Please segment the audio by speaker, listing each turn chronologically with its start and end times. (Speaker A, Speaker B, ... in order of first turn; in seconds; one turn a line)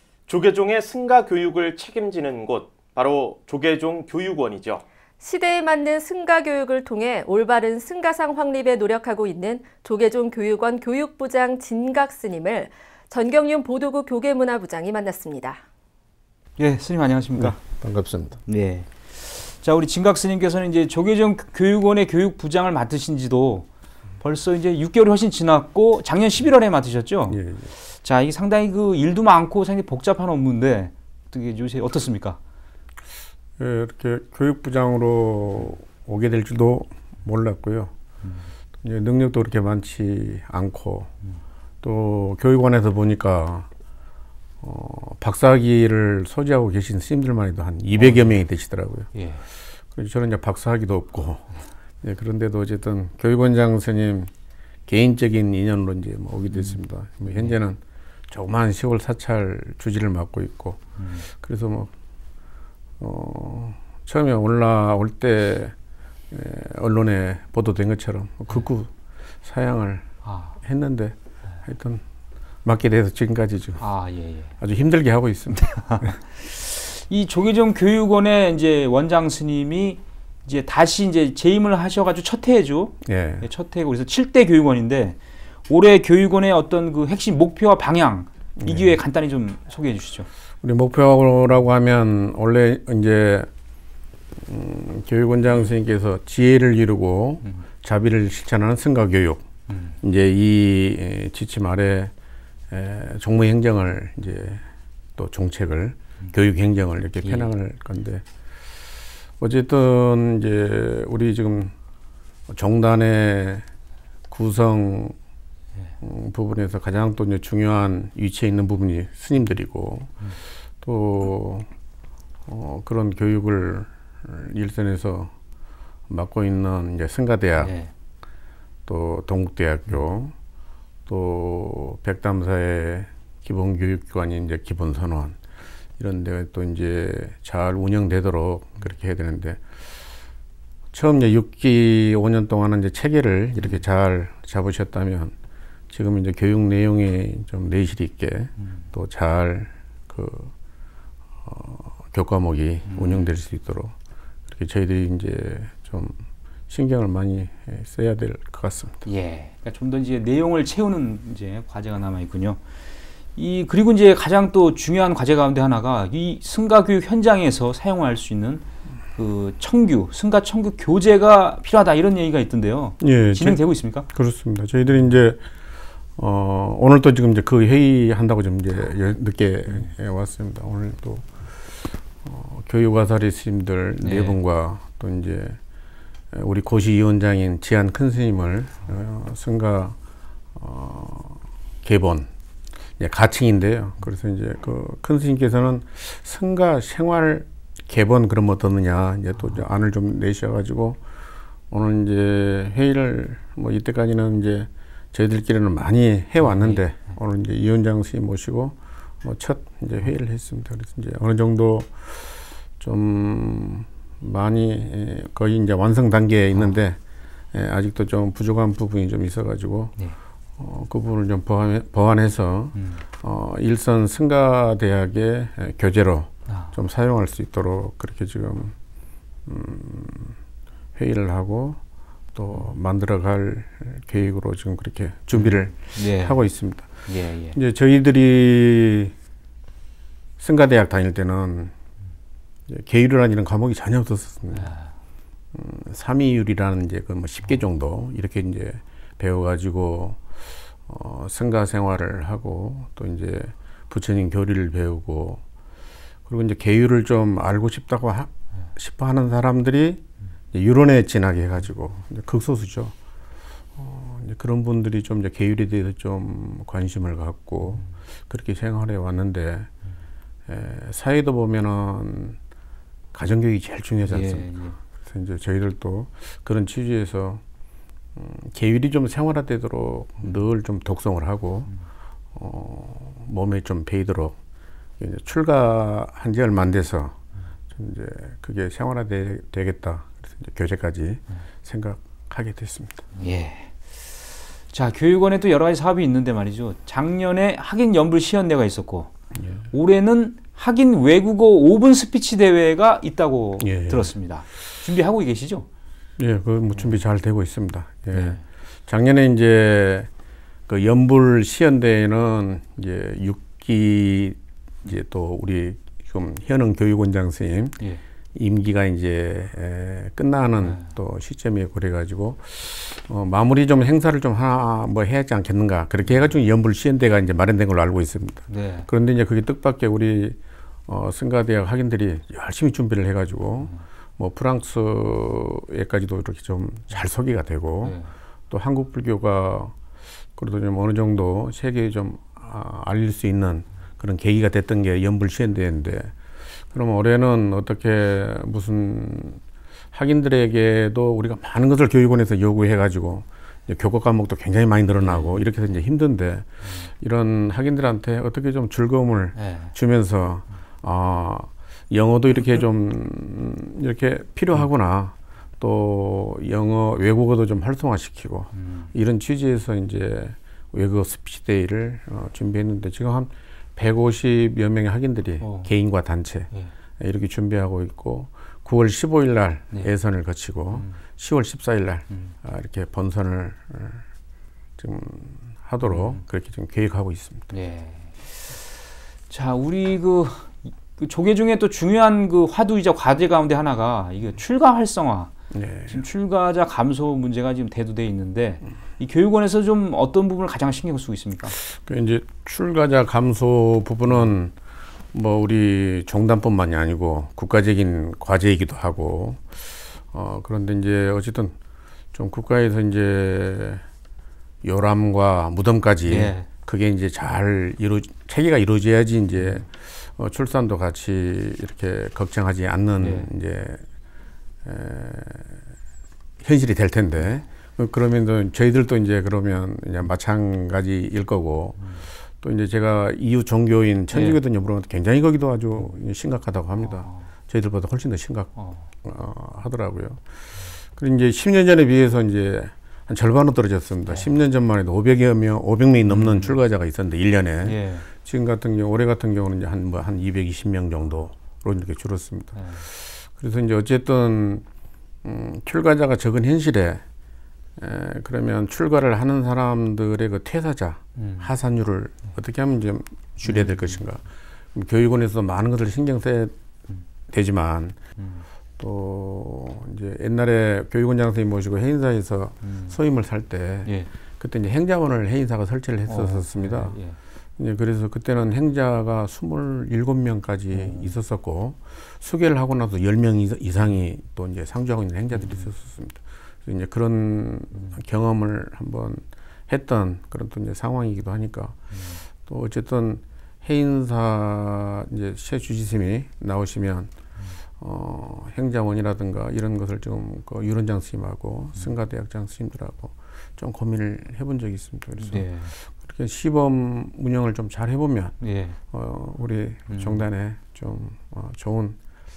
Speaker A: 0.3-4.8
Speaker B: 5.2-15.6
Speaker C: 16.6-17.6
Speaker D: 17.4-18.4
Speaker C: 18.4-23.7
Speaker C: 24.2-32.4
Speaker D: 27.3-27.7
Speaker D: 33.6-37.9
Speaker D: 38.8-41.1
Speaker D: 41.8-43.7
Speaker D: 44.6-49.1
Speaker C: 47.9-48.4
Speaker C: 49.1-49.4
Speaker D: 49.9-54.3
Speaker D: 54.9-61.9
Speaker C: 56.5-56.8
Speaker C: 61.0-61.3
Speaker D: 63.0-65.7
Speaker D: 66.3-68.9
Speaker D: 69.4-72.0
Speaker C: 70.2-70.6
Speaker D: 72.6-73.8
Speaker C: 73.8-74.5
Speaker D: 74.6-76.1
Speaker C: 75.8-90.3
Speaker D: 83.0-83.5
Speaker D: 88.6-88.9
Speaker D: 90.6-93.5
Speaker D: 94.4-99.4
Speaker C: 99.7-100.0
Speaker D: 100.0-102.1
Speaker D: 102.7-104.6
Speaker D: 105.2-108.2
Speaker C: 107.2-107.5
Speaker D: 109.4-111.7
Speaker D: 112.5-113.6
Speaker D: 114.3-115.1
Speaker D: 116.0-120.1
Speaker D: 120.8-121.7
Speaker D: 122.5-125.3
Speaker D: 126.1-127.7
Speaker C: 127.6-127.9
Speaker D: 128.9-130.3
Speaker D: 131.1-135.4
Speaker D: 136.0-139.6
Speaker D: 140.9-145.3
Speaker D: 145.9-150.5
Speaker D: 151.4-153.9
Speaker C: 152.9-153.3
Speaker D: 154.5-156.2
Speaker D: 156.7-159.1
Speaker C: 159.1-162.6
Speaker C: 163.3-174.1
Speaker D: 173.0-175.4
Speaker D: 176.2-185.6
Speaker C: 184.0-184.4
Speaker D: 186.3-189.9
Speaker D: 190.5-192.3
Speaker D: 193.0-201.0
Speaker D: 201.7-217.0
Speaker C: 206.4-206.8
Speaker D: 217.5-220.0
Speaker D: 220.6-228.7
Speaker C: 222.8-223.0
Speaker C: 226.5-226.7
Speaker D: 229.4-230.4
Speaker D: 230.9-231.8
Speaker D: 232.3-239.1
Speaker C: 235.3-236.4
Speaker C: 237.1-237.6
Speaker D: 240.4-241.7
Speaker D: 242.7-244.7
Speaker C: 244.6-244.9
Speaker D: 245.5-250.2
Speaker D: 250.8-255.4
Speaker D: 256.2-260.0
Speaker D: 260.5-262.9
Speaker D: 263.8-269.7
Speaker D: 270.5-272.4
Speaker D: 273.1-277.4
Speaker C: 274.1-274.8
Speaker D: 278.1-281.7
Speaker D: 282.3-284.4
Speaker D: 285.0-287.1
Speaker D: 287.7-293.0
Speaker C: 293.2-294.0
Speaker C: 294.7-299.1
Speaker D: 299.4-299.6
Speaker C: 299.7-305.7
Speaker D: 303.6-304.1
Speaker D: 306.2-310.1
Speaker C: 308.1-308.4
Speaker D: 310.7-317.8
Speaker D: 318.3-338.0
Speaker C: 320.6-320.9
Speaker C: 328.5-328.9
Speaker C: 337.8-338.1
Speaker D: 338.5-339.7
Speaker D: 340.4-346.1
Speaker D: 346.7-384.0
Speaker C: 355.0-355.4
Speaker C: 359.4-359.7
Speaker C: 368.5-368.9
Speaker C: 375.4-375.7
Speaker D: 384.8-387.5
Speaker C: 385.9-386.2
Speaker C: 387.5-388.6
Speaker C: 389.3-395.3
Speaker D: 395.5-396.0
Speaker C: 395.9-401.6
Speaker D: 401.6-404.5
Speaker D: 405.1-411.5
Speaker D: 412.1-413.8
Speaker D: 414.6-423.8
Speaker C: 416.1-416.5
Speaker C: 419.4-419.6
Speaker C: 423.0-423.3
Speaker D: 424.6-425.6
Speaker D: 426.4-431.8
Speaker D: 432.4-440.2
Speaker C: 434.1-434.4
Speaker C: 436.8-437.3
Speaker C: 438.6-438.9
Speaker D: 440.9-454.6
Speaker C: 446.1-446.6
Speaker C: 447.6-448.1
Speaker C: 452.5-452.8
Speaker D: 455.2-457.0
Speaker D: 457.8-464.2
Speaker C: 461.2-461.5
Speaker C: 463.4-464.0
Speaker D: 464.7-466.5
Speaker D: 467.3-468.0
Speaker C: 468.2-468.4
Speaker D: 468.8-477.0
Speaker C: 472.6-473.0
Speaker C: 473.8-474.1
Speaker C: 476.1-477.2
Speaker D: 477.6-491.8
Speaker C: 480.7-481.1
Speaker C: 485.3-485.7
Speaker C: 491.9-492.2
Speaker D: 492.4-497.1
Speaker D: 497.8-508.4
Speaker C: 505.2-505.7
Speaker C: 508.4-508.8
Speaker D: 508.9-512.0
Speaker C: 509.9-510.2